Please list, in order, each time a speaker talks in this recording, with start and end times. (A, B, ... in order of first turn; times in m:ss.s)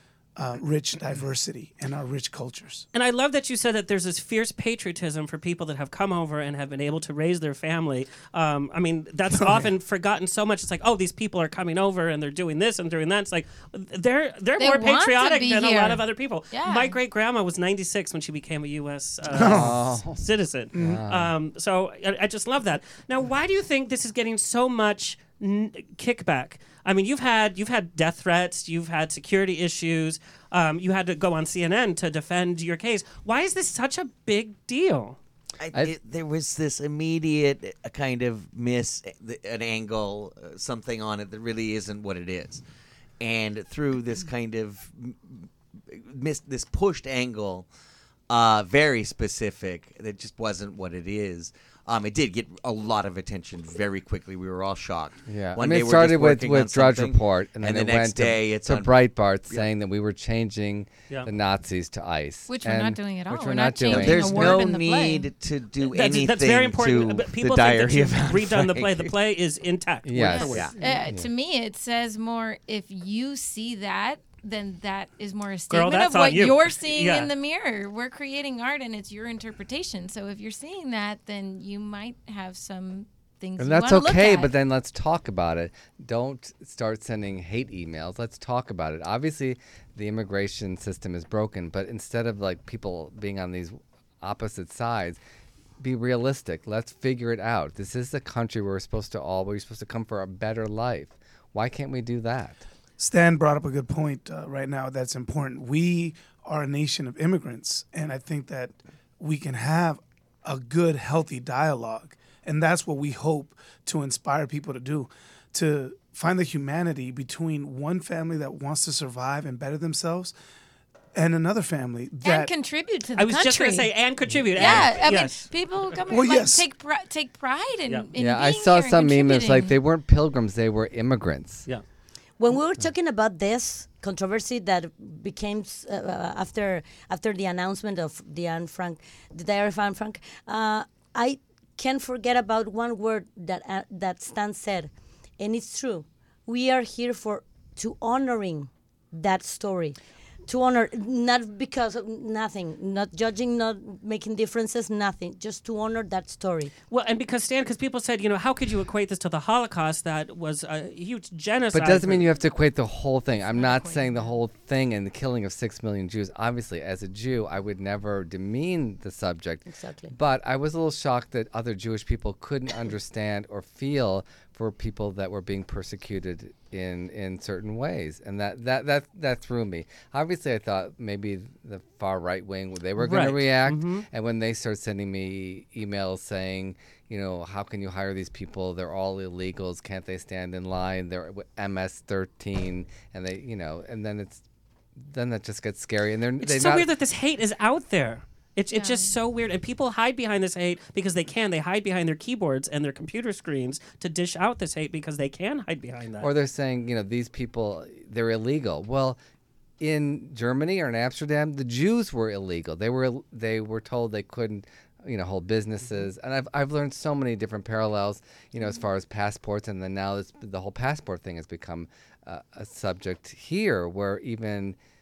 0:00.4-0:02.9 A
0:02.9-0:35.2 B
0:14.6-0:17.0 C
0:19.3-0:19.8 A
0:19.4-0:20.2 D
0:20.7-0:21.0 A
0:20.8-0:21.3 D
0:35.6-0:42.6 E
0:43.2-0:47.7 E
0:48.3-0:58.9 E
0:55.3-1:04.7 D
1:02.5-1:05.3 C
1:03.9-1:09.1 E
1:05.8-1:11.0 B
1:10.0-1:11.3 D
1:10.2-1:24.5 C
1:10.5-1:10.8 E
1:15.7-1:17.3 B
1:23.6-1:35.2 D
1:35.8-1:42.6 D
1:43.0-2:00.3 A
2:01.1-2:02.5 A
2:02.2-2:03.9 C
2:03.2-2:05.5 B
2:04.5-2:09.7 C
2:04.6-2:04.8 D
2:06.1-2:06.6 A
2:08.2-2:11.7 D
2:12.4-2:36.7 F
2:36.9-2:42.3 B
2:41.7-3:14.4 D
2:43.4-2:44.3 C
2:49.7-2:50.1 F
3:03.0-3:04.0 B
3:15.0-3:16.9 D
3:16.4-3:26.3 B
3:18.7-3:19.1 C
3:26.2-3:29.2 D
3:29.8-3:44.8 D